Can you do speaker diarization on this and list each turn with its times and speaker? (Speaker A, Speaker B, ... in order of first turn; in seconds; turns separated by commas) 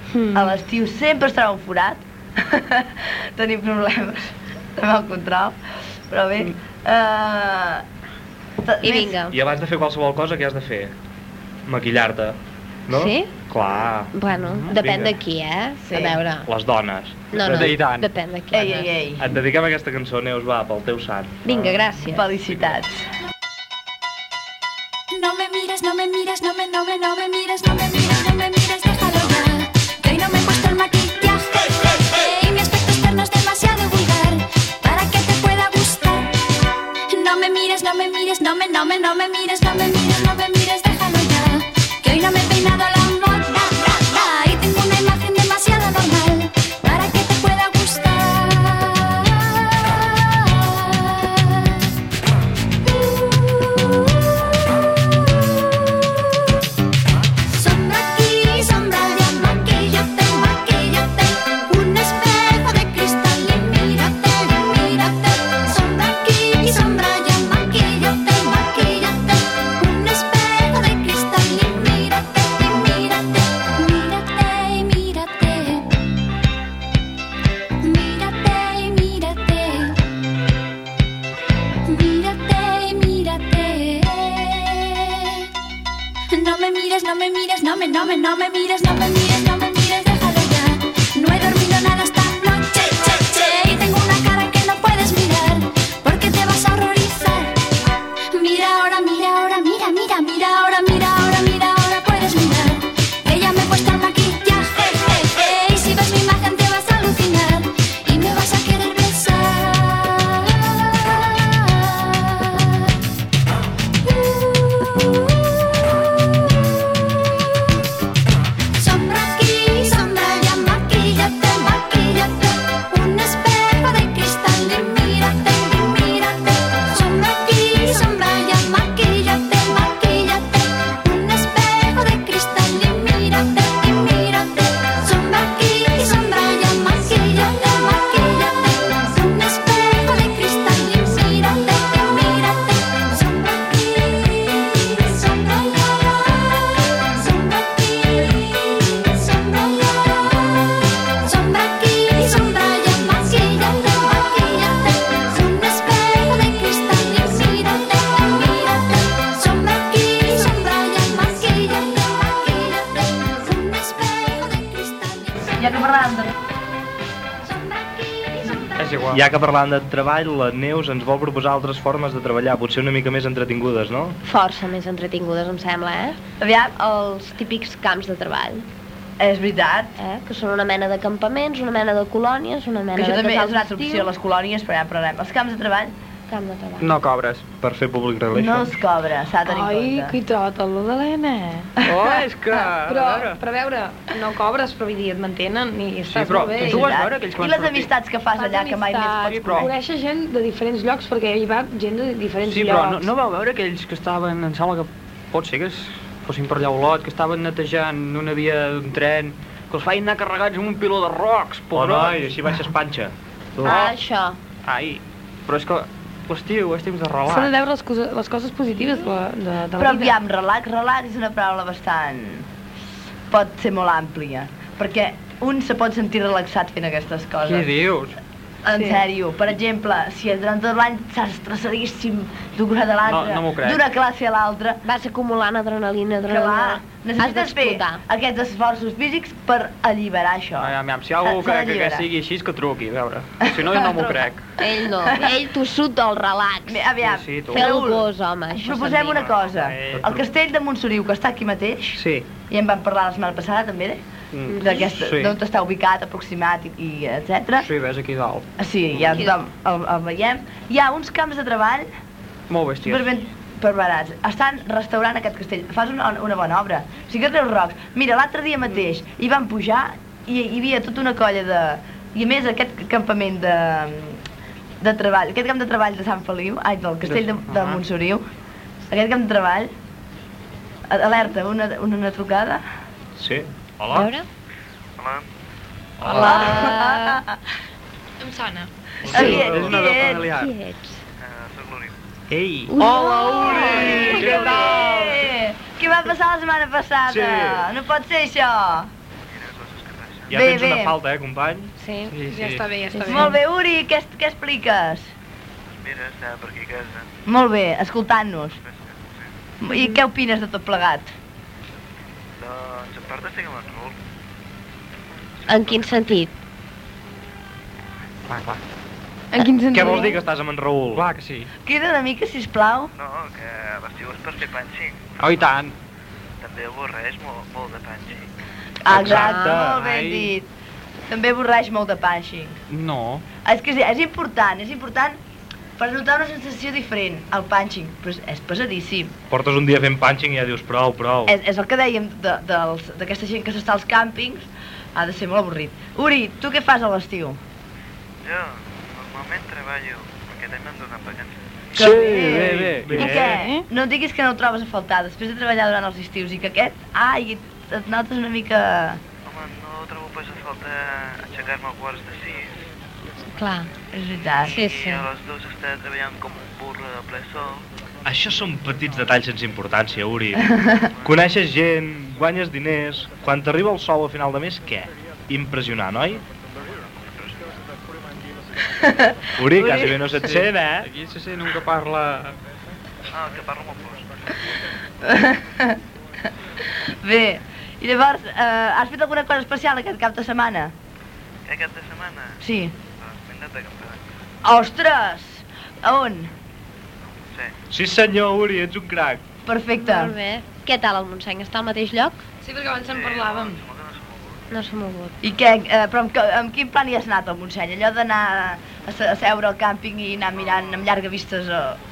Speaker A: 0.1-0.6, Speaker B: 0.3-5.6, Speaker B: 6.1-7.8, Speaker B: 8.6-9.2, Speaker C: 8.8-9.4, Speaker D: 9.3-10.9, Speaker D: 11.7-14.2, Speaker C: 12.9-13.3, Speaker C: 14.1-16.5, Speaker E: 14.4-14.7, Speaker D: 14.7-15.2, Speaker B: 15.8-16.2, Speaker D: 16.5-17.2, Speaker C: 17.3-18.9, Speaker E: 17.4-18.1, Speaker B: 18.5-19.2, Speaker D: 19.2-21.8, Speaker C: 21.4-22.3, Speaker B: 22.1-23.0, Speaker F: 25.1-31.6, Speaker F: 32.1-36.3, Speaker F: 37.1-51.3, Speaker F: 57.5-75.8, Speaker F: 77.8-80.0, Speaker F: 81.9-85.1, Speaker F: 86.3-97.5, Speaker F: 98.3-110.6, Speaker F: 118.8-146.4, Speaker F: 147.1-150.5, Speaker F: 151.2-165.6, Speaker B: 165.6-166.3, Speaker F: 167.4-169.0, Speaker E: 168.8-169.2, Speaker D: 169.1-174.2, Speaker C: 174.2-176.2, Speaker B: 176.4-176.8, Speaker C: 176.8-178.7, Speaker B: 179.2-180.0, Speaker C: 180.0-184.1, Speaker B: 183.0-185.9, Speaker C: 186.3-186.9, Speaker E: 186.8-187.4, Speaker D: 187.6-188.8, Speaker B: 188.3-190.2, Speaker A: 189.4-191.7, Speaker E: 191.8-193.4, Speaker B: 191.9-192.2, Speaker A: 192.5-197.0, Speaker E: 196.1-197.9, Speaker B: 196.6-199.7, Speaker A: 198.3-203.1, Speaker E: 199.2-199.7, Speaker E: 202.4-212.2, Speaker D: 211.7-213.8, Speaker C: 213.6-214.4, Speaker E: 213.7-213.9, Speaker E: 214.7-217.6, Speaker A: 217.2-220.2, Speaker B: 219.8-222.5, Speaker B: 223.3-227.9, Speaker E: 227.4-228.2, Speaker B: 228.6-234.8, Speaker A: 228.7-229.1, Speaker E: 233.1-233.8, Speaker C: 234.8-238.0, Speaker B: 236.3-242.1, Speaker E: 240.6-244.4, Speaker B: 243.5-244.2, Speaker C: 244.6-246.8, Speaker B: 246.7-254.0, Speaker E: 247.0-247.8, Speaker C: 247.5-249.3, Speaker E: 249.3-250.3, Speaker E: 252.0-252.3, Speaker E: 254.3-255.4, Speaker C: 254.5-254.9, Speaker B: 254.6-257.7, Speaker E: 257.6-258.5, Speaker B: 258.6-261.9, Speaker E: 262.5-263.1, Speaker B: 262.8-274.2, Speaker B: 274.8-278.3, Speaker E: 277.1-277.8, Speaker B: 278.9-279.7, Speaker B: 280.9-282.6, Speaker D: 283.2-284.1, Speaker C: 283.9-284.3, Speaker G: 285.0-285.2, Speaker D: 286.0-286.4, Speaker A: 286.1-286.7, Speaker C: 286.1-287.2, Speaker B: 286.2-287.4, Speaker A: 288.2-288.7, Speaker B: 289.1-290.3, Speaker D: 289.1-290.5, Speaker E: 289.1-290.3, Speaker C: 289.1-291.0, Speaker G: 291.2-292.0, Speaker E: 292.3-294.8, Speaker C: 292.7-294.2, Speaker D: 292.8-295.3, Speaker B: 293.5-298.9, Speaker D: 297.1-297.7, Speaker G: 299.3-300.4, Speaker D: 300.3-301.7, Speaker B: 300.3-301.0, Speaker A: 301.8-303.4, Speaker E: 302.1-302.7, Speaker C: 302.9-303.4, Speaker B: 303.1-305.1, Speaker G: 305.6-307.2, Speaker B: 307.3-308.6, Speaker G: 308.6-309.3, Speaker B: 309.6-311.1, Speaker G: 312.4-314.0, Speaker G: 315.3-316.3, Speaker C: 315.5-316.3, Speaker E: 318.3-318.6, Speaker A: 319.3-320.2, Speaker D: 319.7-321.1, Speaker E: 320.9-321.5, Speaker B: 321.6-322.9, Speaker G: 322.9-325.6, Speaker E: 325.2-325.7, Speaker G: 326.4-328.3, Speaker B: 328.8-330.5, Speaker D: 328.9-329.8, Speaker C: 329.0-329.6, Speaker E: 329.6-330.3, Speaker B: 331.1-332.6, Speaker E: 332.7-333.3, Speaker B: 333.4-335.2, Speaker B: 335.8-339.1, Speaker D: 339.3-341.4, Speaker B: 341.3-347.4, Speaker G: 348.2-351.3, Speaker D: 351.8-353.5, Speaker B: 351.8-359.0, Speaker E: 352.6-353.2, Speaker G: 359.2-362.7, Speaker C: 363.4-363.7, Speaker B: 363.9-364.6, Speaker G: 364.4-367.7, Speaker C: 364.4-365.1, Speaker D: 368.1-370.5, Speaker B: 370.4-370.9, Speaker G: 370.9-371.3, Speaker D: 371.0-376.2, Speaker G: 376.6-377.6, Speaker B: 378.8-380.0, Speaker D: 379.4-380.9, Speaker E: 380.2-382.4, Speaker G: 383.1-384.2, Speaker B: 385.0-385.8, Speaker B: 386.8-390.7, Speaker G: 391.5-394.1, Speaker B: 392.4-392.7, Speaker B: 394.4-396.3, Speaker G: 397.1-397.5, Speaker D: 397.7-399.2, Speaker B: 399.5-400.1, Speaker C: 399.8-402.2, Speaker A: 402.4-403.6, Speaker G: 402.7-404.5, Speaker C: 404.5-405.1, Speaker B: 405.2-411.8